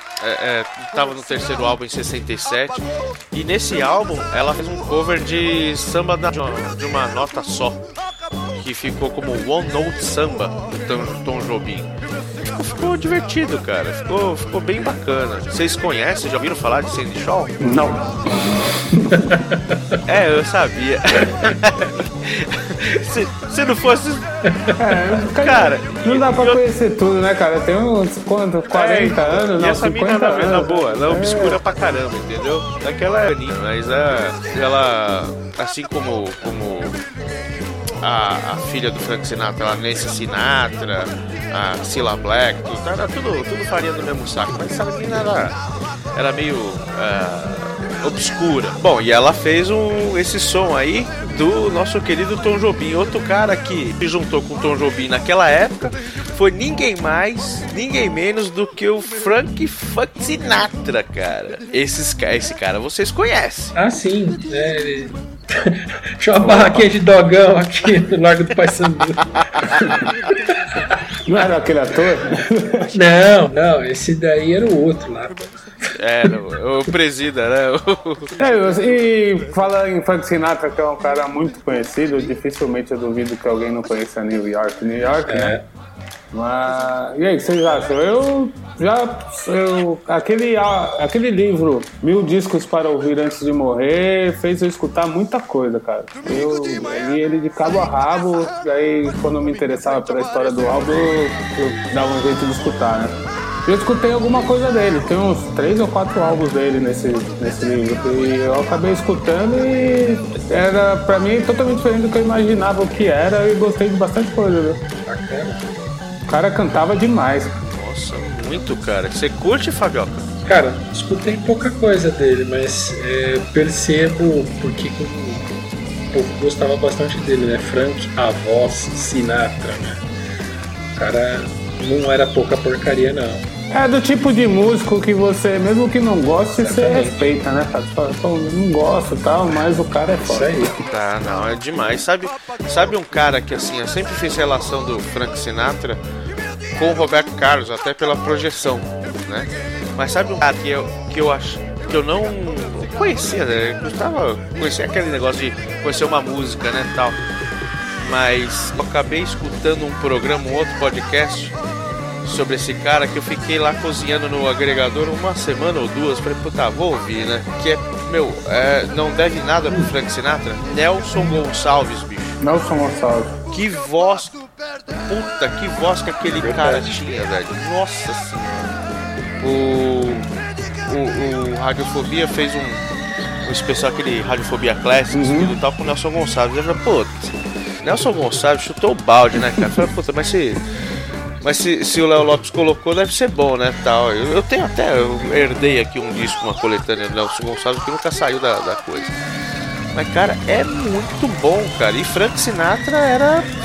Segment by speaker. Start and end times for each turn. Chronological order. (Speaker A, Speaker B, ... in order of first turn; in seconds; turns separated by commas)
Speaker A: 0.2-7.9, Speaker A: 8.6-11.9, Speaker A: 12.6-17.6, Speaker B: 17.6-19.3, Speaker C: 19.2-19.7, Speaker A: 20.1-24.3, Speaker B: 24.8-31.6, Speaker A: 25.3-26.6, Speaker A: 28.7-37.0, Speaker A: 38.0-45.6, Speaker A: 46.1-63.8, Speaker C: 63.8-70.0, Speaker A: 66.4-66.8, Speaker A: 69.4-70.0, Speaker B: 71.3-72.9, Speaker C: 72.9-75.5, Speaker A: 76.0-78.3, Speaker B: 78.4-85.6, Speaker C: 85.3-85.6, Speaker B: 86.3-114.8, Speaker C: 115.0-115.7, Speaker B: 116.3-117.6, Speaker A: 117.7-120.3, Speaker C: 120.5-125.6, Speaker C: 126.1-130.0, Speaker C: 131.0-133.5, Speaker B: 133.7-140.8, Speaker C: 136.6-137.2, Speaker C: 140.2-140.7, Speaker A: 140.9-146.0, Speaker A: 146.8-157.2, Speaker A: 158.0-161.6, Speaker A: 162.2-172.4, Speaker B: 172.4-173.4, Speaker A: 173.5-174.4, Speaker A: 175.1-178.7, Speaker C: 176.3-176.9, Speaker A: 179.4-180.3, Speaker A: 180.9-182.8, Speaker A: 183.4-190.6, Speaker B: 185.1-185.6, Speaker A: 191.4-199.2, Speaker A: 199.9-203.5